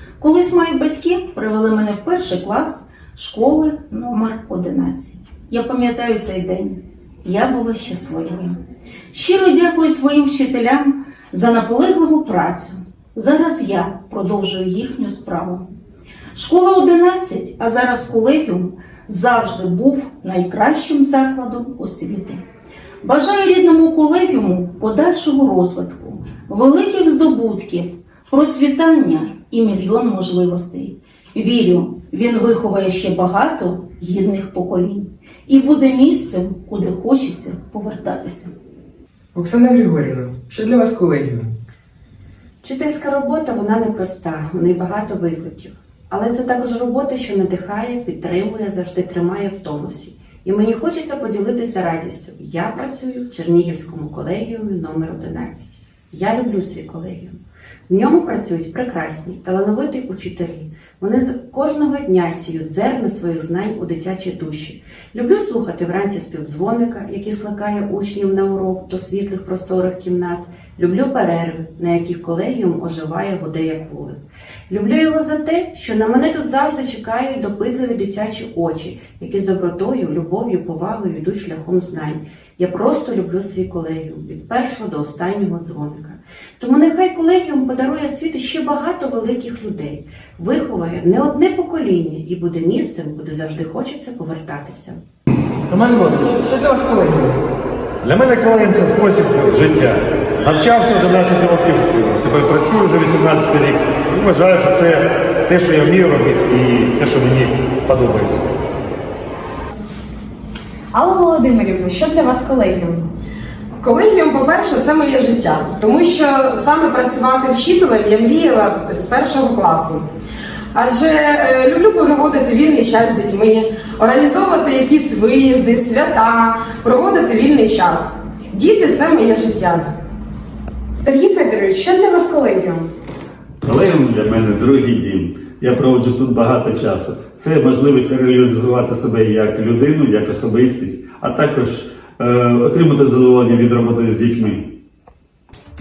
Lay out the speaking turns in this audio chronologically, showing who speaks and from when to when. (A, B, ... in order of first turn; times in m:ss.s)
0:00.2-0:08.6 A
0:09.1-0:15.7 A
0:16.3-0:22.4 A
0:23.0-0:38.5 A
0:39.3-0:41.6 B
0:42.6-1:35.0 C
1:35.7-1:37.2 B
1:38.0-1:48.5 D
1:50.9-1:53.1 E
1:53.8-2:00.0 F
2:00.7-2:09.9 F
2:11.0-2:12.9 E
2:13.6-2:24.7 G